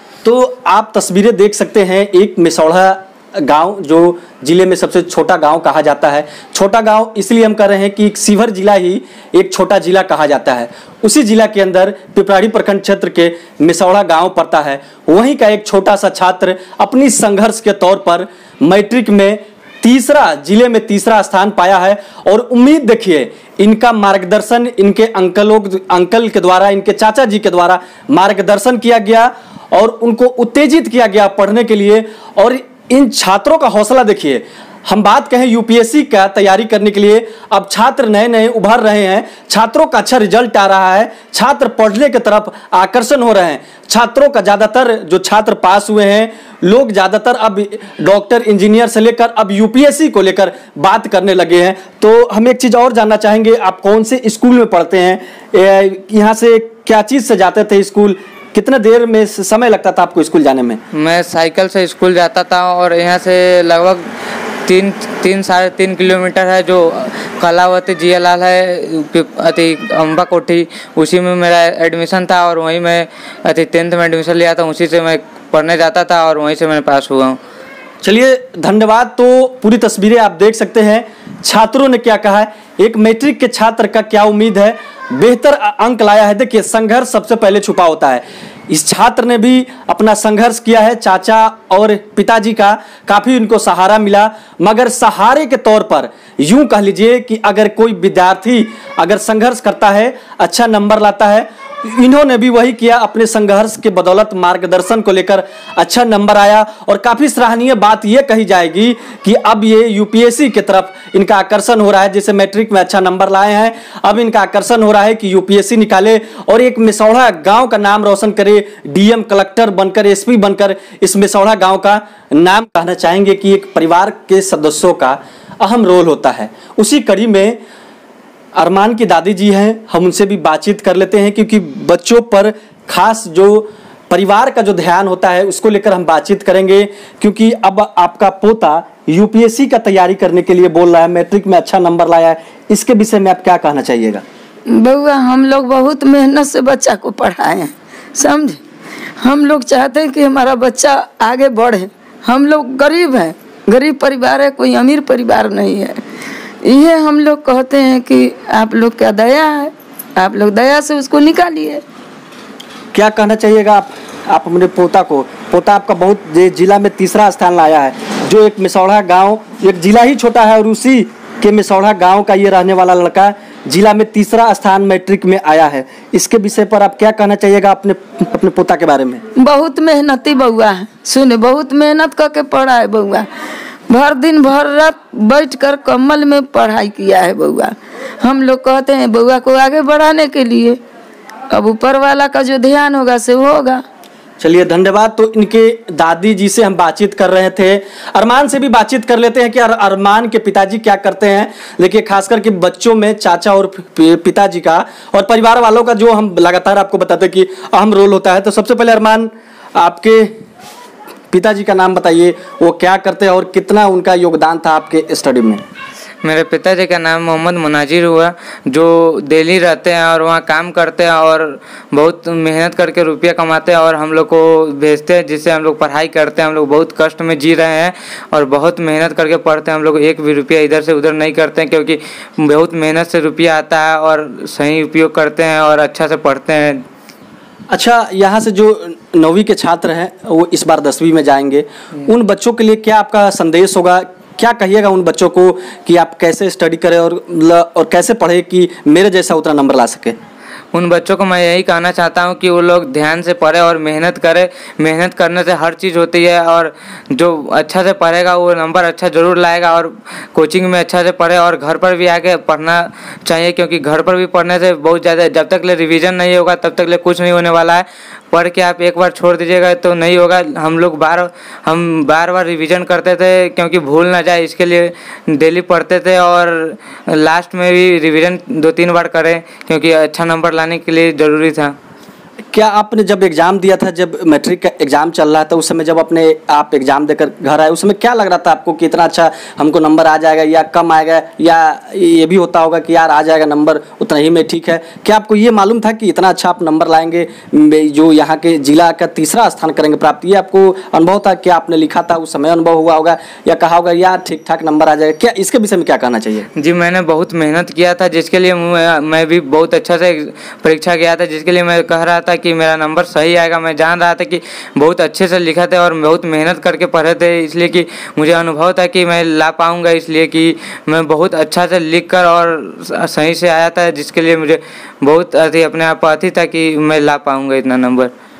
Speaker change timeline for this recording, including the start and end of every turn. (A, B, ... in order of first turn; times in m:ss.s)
0:00.2-1:00.8 A
1:00.9-1:04.0 B
1:04.6-1:17.4 B
1:18.0-2:07.6 A
2:08.6-2:24.2 A
2:24.7-2:28.6 C
2:29.2-2:35.9 C
2:36.6-2:41.8 C
2:42.9-2:59.2 A
2:59.4-3:03.2 C
3:03.9-3:10.8 C
3:11.5-3:13.8 C
3:14.4-3:30.3 A
3:31.3-3:35.6 A
3:36.2-3:56.8 B
3:57.7-4:10.2 A
4:10.7-4:41.7 B
4:42.5-5:06.5 A
5:06.6-5:28.1 B